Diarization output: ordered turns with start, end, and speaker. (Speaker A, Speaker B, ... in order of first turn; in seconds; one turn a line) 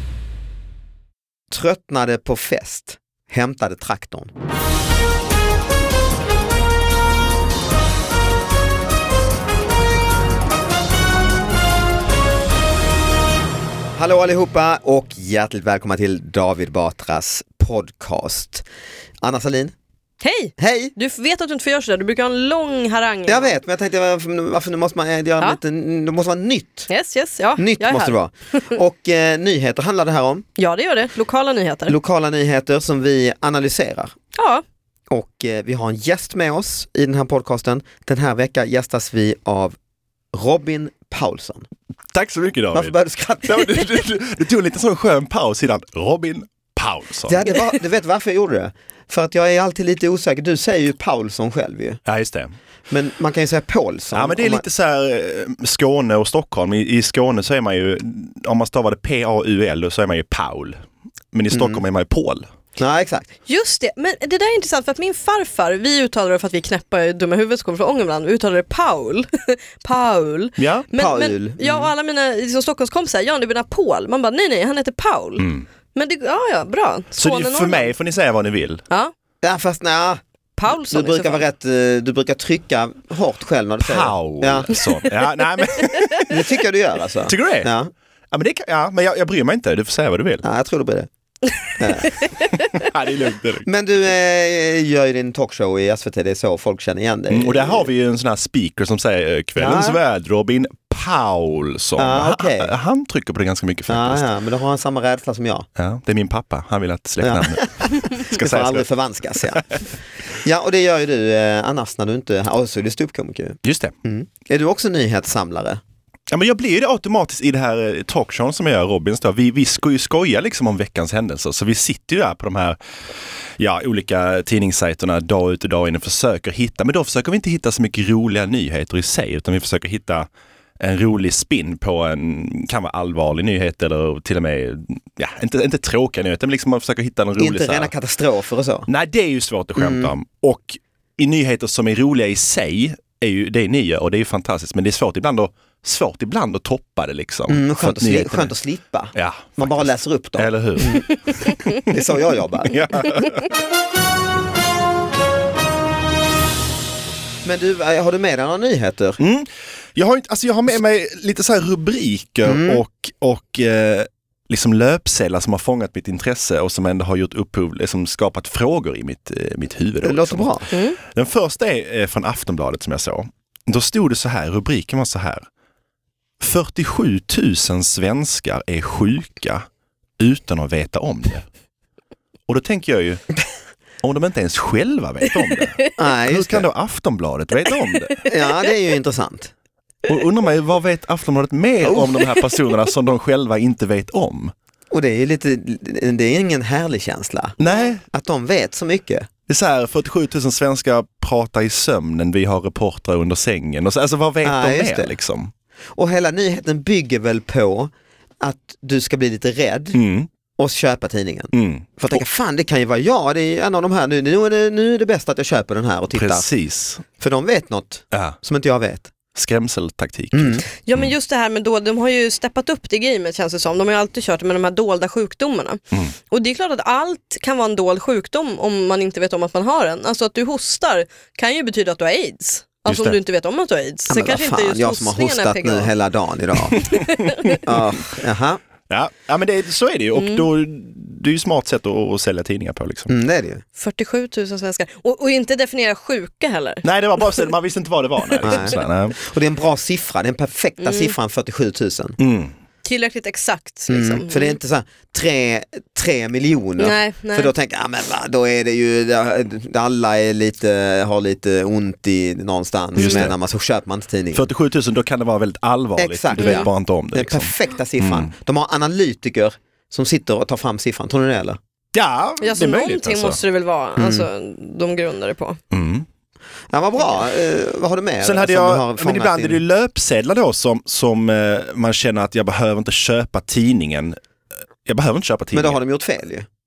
Speaker A: 1.5-4.3
Speaker A: 13.9-18.6
Speaker A: 19.2-19.7
Speaker B: 20.2-23.6
Speaker A: 20.6-20.9
Speaker A: 23.2-26.9
Speaker B: 26.9-28.8
Speaker A: 27.6-30.4
Speaker B: 30.6-31.9
Speaker A: 31.9-34.1
Speaker B: 34.3-34.6
Speaker A: 35.1-39.8
Speaker A: 40.3-41.7
Speaker C: 42.1-47.5
Speaker A: 42.7-43.8
Speaker A: 47.3-52.0
Speaker C: 52.0-52.5
Speaker A: 52.9-54.6
Speaker C: 54.1-60.8
Speaker C: 61.3-62.5
Speaker A: 61.5-61.8
Speaker A: 62.8-63.3
Speaker B: 63.5-77.9
Speaker C: 70.6-70.9
Speaker A: 71.0-71.9
Speaker C: 75.4-75.7
Speaker C: 77.2-78.8
Speaker A: 79.4-84.8
Speaker B: 80.6-81.4
Speaker C: 83.8-86.4
Speaker A: 86.3-87.9
Speaker C: 87.2-87.7
Speaker C: 88.3-90.4
Speaker A: 90.4-91.1
Speaker A: 91.8-92.2
Speaker C: 92.7-93.7
Speaker A: 93.7-97.9
Speaker C: 97.3-104.2
Speaker A: 99.6-100.0
Speaker A: 102.0-102.7
Speaker A: 103.9-105.7
Speaker C: 105.8-108.8
Speaker A: 107.2-115.8
Speaker C: 109.4-109.8
Speaker C: 113.6-113.9
Speaker C: 116.3-130.3
Speaker C: 130.8-137.9
Speaker A: 137.4-138.9
Speaker C: 138.9-148.5
Speaker A: 139.8-140.1
Speaker A: 147.5-151.1
Speaker C: 149.1-152.0
Speaker A: 151.8-153.0
Speaker C: 152.7-153.5
Speaker A: 157.4-159.2
Speaker C: 159.2-175.4
Speaker A: 162.4-162.8
Speaker A: 170.0-170.7
Speaker B: 170.7-171.0
Speaker C: 176.4-179.7
Speaker C: 180.2-181.4
Speaker C: 182.5-183.2
Speaker C: 184.0-188.1
Speaker A: 185.9-186.7
Speaker B: 188.1-188.7
Speaker A: 188.2-189.5
Speaker C: 190.1-194.5
Speaker A: 194.9-197.6
Speaker C: 197.6-198.0
Speaker A: 198.1-199.3
Speaker C: 199.5-205.5
Speaker A: 204.4-205.2
Speaker A: 205.9-210.0
Speaker C: 209.9-210.3
Speaker A: 210.6-216.5
Speaker C: 211.5-212.2
Speaker C: 216.1-217.0
Speaker A: 217.2-219.1
Speaker C: 218.1-218.4
Speaker C: 219.3-221.1
Speaker A: 220.3-220.7
Speaker B: 220.8-235.9
Speaker C: 232.8-233.2
Speaker A: 234.1-236.8
Speaker C: 236.7-237.1
Speaker B: 236.9-237.6
Speaker A: 237.6-238.6
Speaker C: 238.9-243.1
Speaker B: 240.2-240.4
Speaker A: 243.1-243.6
Speaker B: 243.8-247.4
Speaker C: 246.8-249.2
Speaker A: 248.4-252.2
Speaker B: 250.8-251.1
Speaker C: 252.2-252.5
Speaker B: 252.8-254.6
Speaker A: 253.9-264.4
Speaker B: 256.8-257.5
Speaker C: 263.0-263.4
Speaker B: 263.0-263.3
Speaker C: 264.3-268.3
Speaker A: 266.0-271.6
Speaker B: 266.4-266.7
Speaker C: 271.9-273.4
Speaker B: 272.4-275.6
Speaker A: 274.0-274.3
Speaker C: 275.7-276.1
Speaker A: 276.7-279.6
Speaker C: 278.2-284.2
Speaker C: 284.8-285.8
Speaker A: 285.5-286.5